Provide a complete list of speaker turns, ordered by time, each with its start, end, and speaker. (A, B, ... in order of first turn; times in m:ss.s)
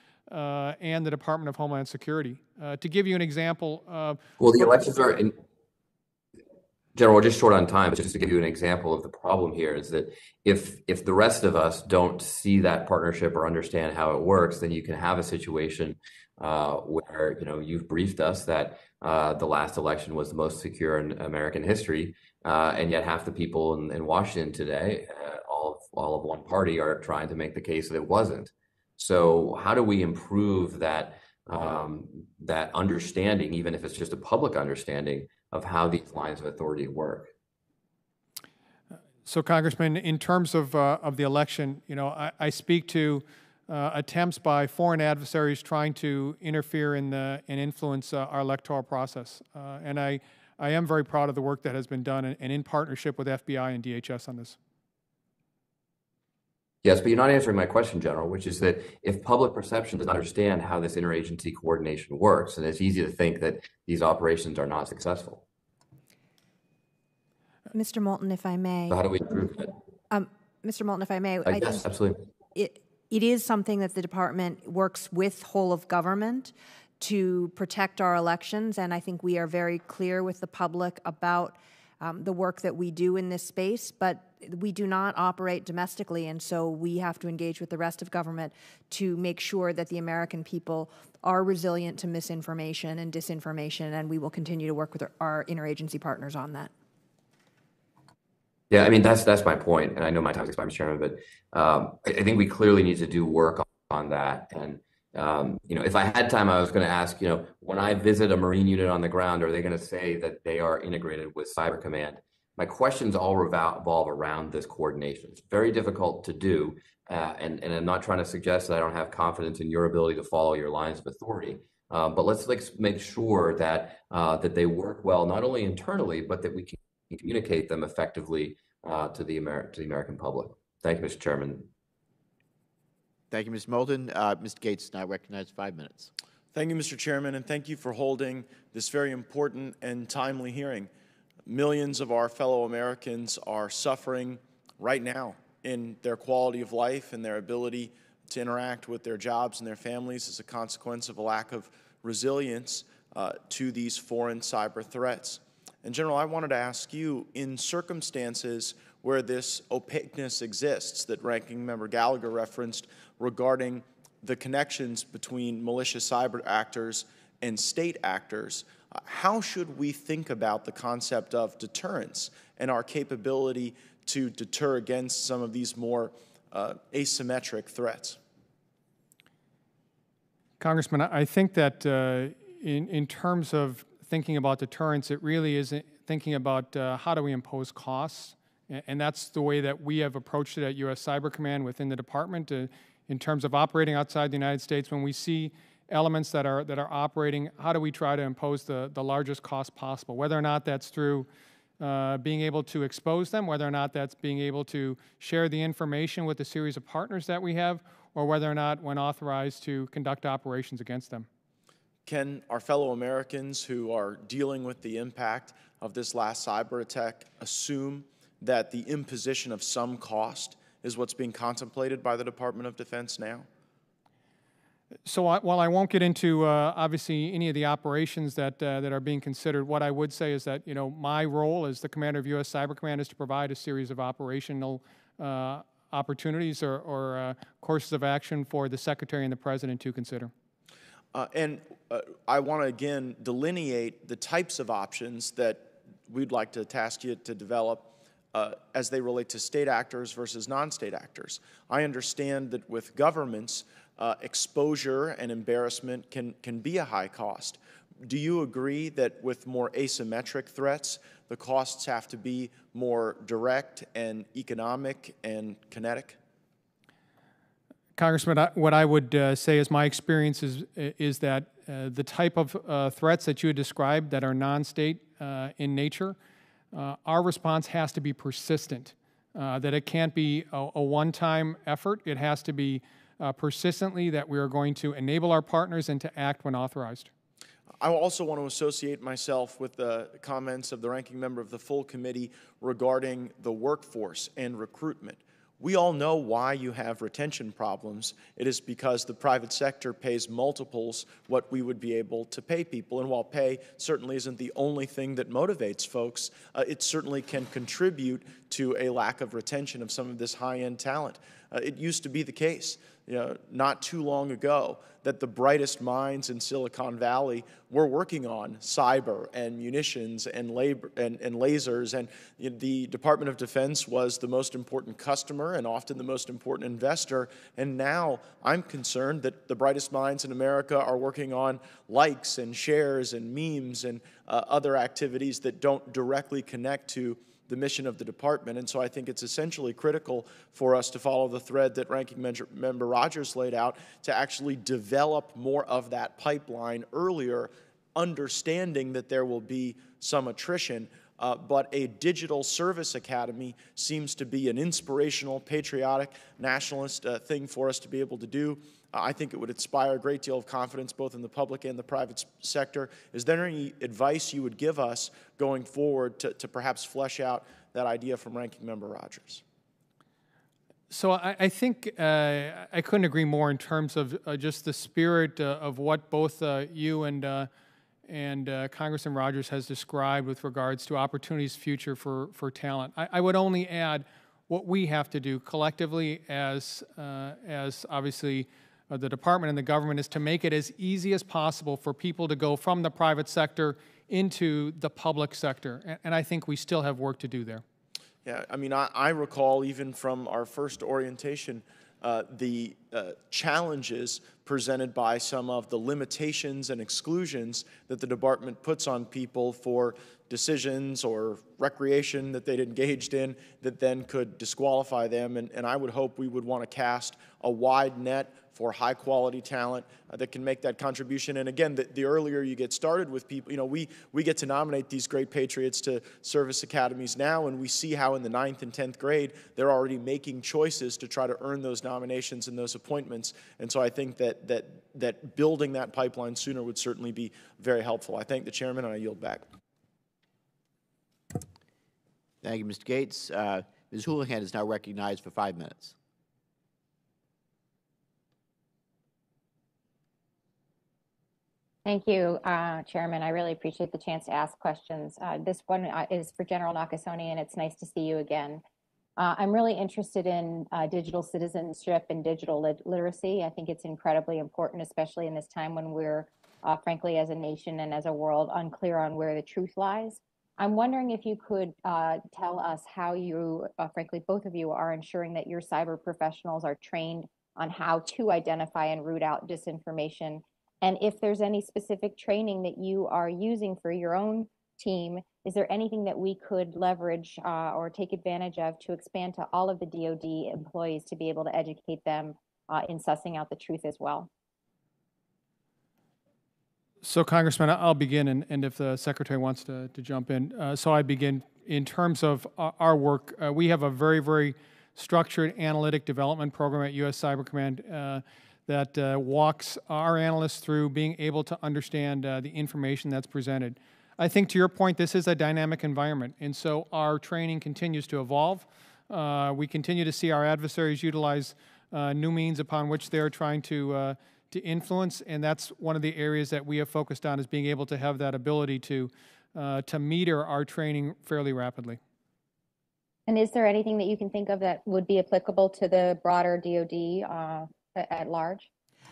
0:00.3-0:04.2 A
0:04.4-0:05.4 B
0:07.0-0:37.3 B
0:39.2-0:54.6 A
0:56.8-1:05.4 B
1:07.7-1:09.0 C
1:08.9-1:09.7 B
1:10.1-1:11.8 C
1:11.4-1:12.2 B
1:12.6-1:36.7 C
1:38.7-2:11.7 B
2:13.3-2:16.1 D
2:16.5-2:20.9 E
2:21.5-2:58.2 E
3:00.6-3:21.3 A
3:21.8-3:31.3 A
3:32.0-3:43.5 E
3:45.1-4:00.3 A
4:01.1-4:26.2 E
4:28.0-4:36.2 A
4:36.7-4:47.1 A
4:47.8-6:09.4 E
6:10.9-6:17.5 A
6:18.1-6:37.6 A
6:38.2-7:19.5 E
7:22.4-7:26.0 D
7:31.9-7:38.6 F
7:39.2-8:14.3 F
8:17.0-8:52.0 A
8:53.3-8:58.7 F